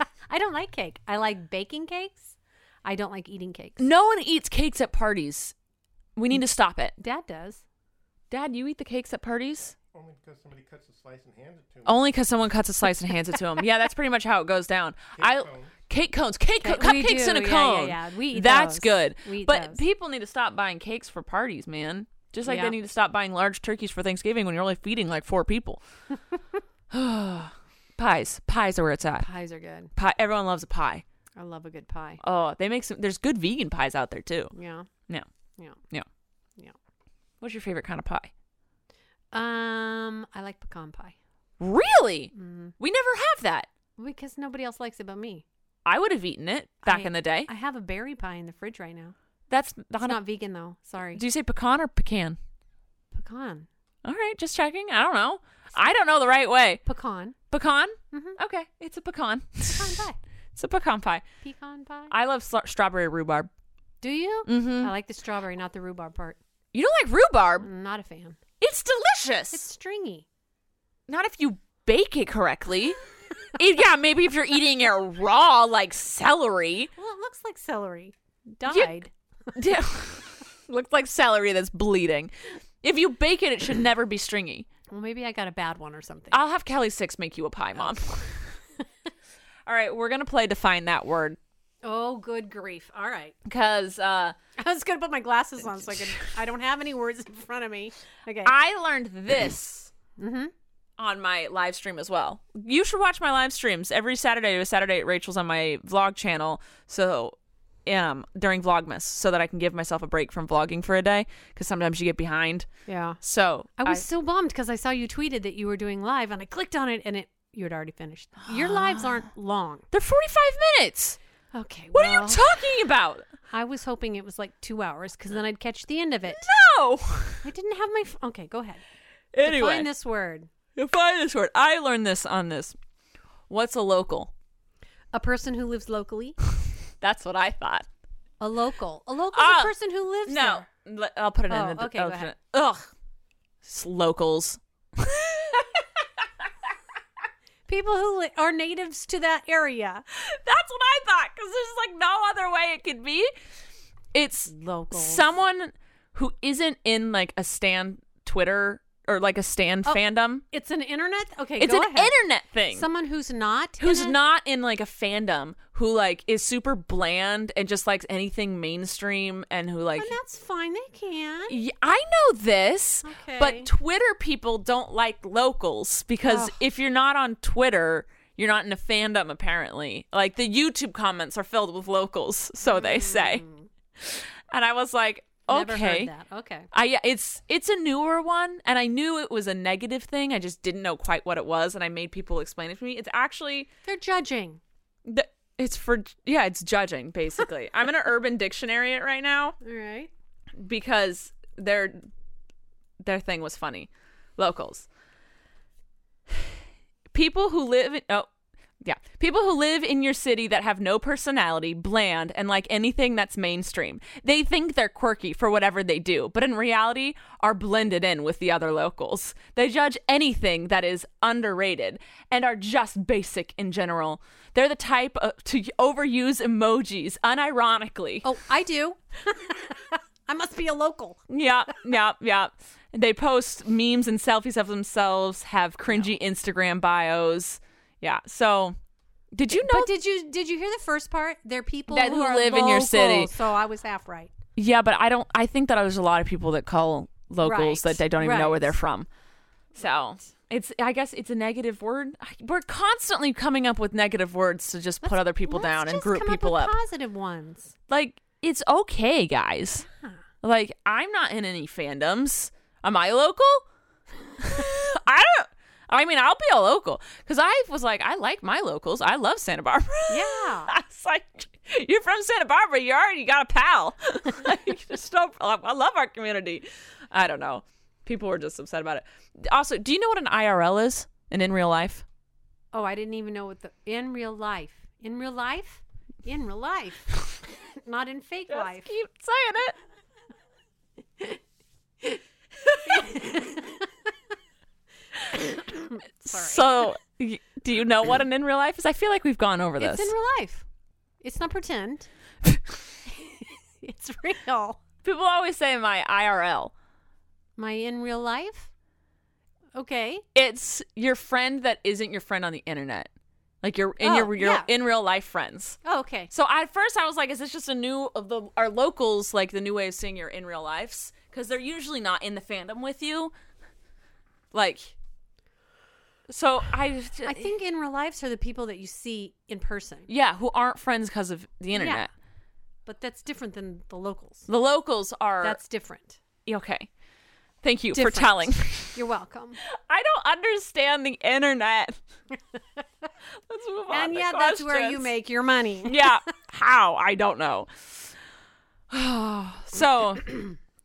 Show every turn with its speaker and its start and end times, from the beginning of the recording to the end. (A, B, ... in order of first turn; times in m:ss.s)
0:00.3-0:03.9 A
0:03.8-0:05.5 B
0:06.2-0:06.9 B
0:07.0-0:07.6 A
0:08.3-0:09.8 B
0:09.9-0:12.1 C
0:11.8-0:25.8 B
0:15.2-0:15.7 C
0:16.6-0:19.8 A
0:22.4-0:22.7 A
0:26.9-0:29.3 B
0:29.2-0:29.9 A
0:30.0-0:31.0 B
0:31.4-0:32.2 A
0:32.2-0:34.5 B
0:34.5-0:34.9 A
0:37.4-0:38.3 B
0:39.3-0:41.2 A
0:41.6-0:43.7 B
0:42.3-0:42.7 A
0:44.0-0:45.4 A
0:45.8-0:47.5 B
0:46.8-0:49.2 A
0:49.5-0:50.2 B
0:50.0-0:51.2 A
0:51.2-0:52.4 B
0:53.1-0:53.7 A
0:54.0-0:56.8 B
0:56.8-0:57.4 A
0:57.5-1:00.0 B
0:58.1-0:58.4 A
0:59.7-1:00.2 A
1:00.6-1:01.2 B
1:01.4-1:02.1 A
1:02.1-1:03.5 B
1:04.0-1:06.4 A
1:04.5-1:04.9 B
1:06.7-1:07.7 B
1:07.6-1:08.4 A
1:08.6-1:09.6 B
1:09.5-1:10.2 A
1:11.1-1:13.0 B
1:13.6-1:16.9 B
1:17.0-1:19.6 A
1:18.7-1:19.0 B
1:19.6-1:22.3 B
1:22.8-1:24.7 B
1:24.9-1:26.4 A
1:26.3-1:28.4 B
1:29.7-1:31.4 B
1:31.8-1:33.3 A
1:33.5-1:34.4 B
1:34.6-1:38.5 A
1:35.9-1:36.3 B
1:38.4-1:39.9 B
1:40.2-1:40.5 A
1:41.0-1:47.4 B
1:47.9-1:52.7 B
1:52.9-1:53.2 A
1:53.2-1:54.0 B
1:53.8-1:59.8 A
1:58.4-1:59.3 B
1:59.9-2:01.2 B
2:01.5-2:02.4 A
2:01.9-2:03.2 B
2:03.5-2:06.5 A
2:06.3-2:07.4 B
2:07.4-2:08.8 A
2:09.3-2:09.9 B
2:09.4-2:10.5 A
2:10.8-2:12.8 B
2:13.5-2:14.3 B
2:15.1-2:16.4 A
2:17.0-2:17.9 B
2:18.4-2:20.7 A
2:19.3-2:19.7 B
2:20.2-2:22.9 B
2:21.5-2:22.3 A
2:23.6-2:25.7 B
2:27.7-2:30.0 A
2:30.2-2:33.3 B
2:34.1-2:40.4 B
2:34.5-2:35.2 A
2:40.5-2:42.1 A
2:41.6-2:42.9 B
2:42.7-2:44.2 A
2:43.8-2:50.2 B
2:50.0-2:51.6 A
2:51.5-3:03.4 B
2:53.0-2:53.7 A
2:56.2-2:56.6 A
3:02.6-3:03.7 A
3:04.0-3:06.1 B
3:05.5-3:06.7 A
3:06.7-3:13.7 B
3:13.8-3:14.6 A
3:15.1-3:19.6 B
3:19.6-3:20.1 A
3:20.6-3:22.1 B
3:23.0-3:24.9 B
3:27.1-3:28.3 B
3:28.8-3:48.3 B
3:48.2-3:51.2 A
3:51.3-3:58.8 B
3:59.3-3:59.9 B
3:59.5-4:04.3 A
4:01.9-4:03.3 B
4:04.6-4:09.1 B
4:07.4-4:08.8 A
4:09.8-4:16.8 B
4:15.0-4:17.8 A
4:17.9-4:19.9 B
4:20.4-4:23.6 B
4:24.4-4:42.0 B
4:30.1-4:30.7 A
4:42.7-4:47.2 A
4:47.8-4:48.9 A
4:48.5-4:49.8 B
4:52.8-4:53.8 A
4:55.4-4:56.6 A
4:56.3-5:00.1 B
4:59.8-5:00.6 A
5:01.2-5:02.1 A
5:03.1-5:04.8 A
5:05.0-5:06.7 B
5:07.6-5:08.7 A
5:09.8-5:10.2 A
5:10.4-5:13.1 B
5:13.6-5:15.8 B
5:14.0-5:14.7 A
5:15.8-5:16.3 A
5:16.3-5:23.3 B
5:24.5-5:24.9 B
5:26.3-5:27.5 B
5:27.2-5:30.1 A
5:30.1-5:32.1 B
5:31.7-5:32.1 A
5:32.9-5:34.5 A
5:34.5-5:35.6 B
5:35.4-5:36.2 A
5:36.5-5:36.9 B
5:37.6-5:39.0 B
5:37.9-5:39.6 A
5:39.9-5:42.0 B
5:43.5-5:45.1 B
5:43.9-5:46.2 A
5:45.8-5:48.0 B
5:48.9-5:50.6 B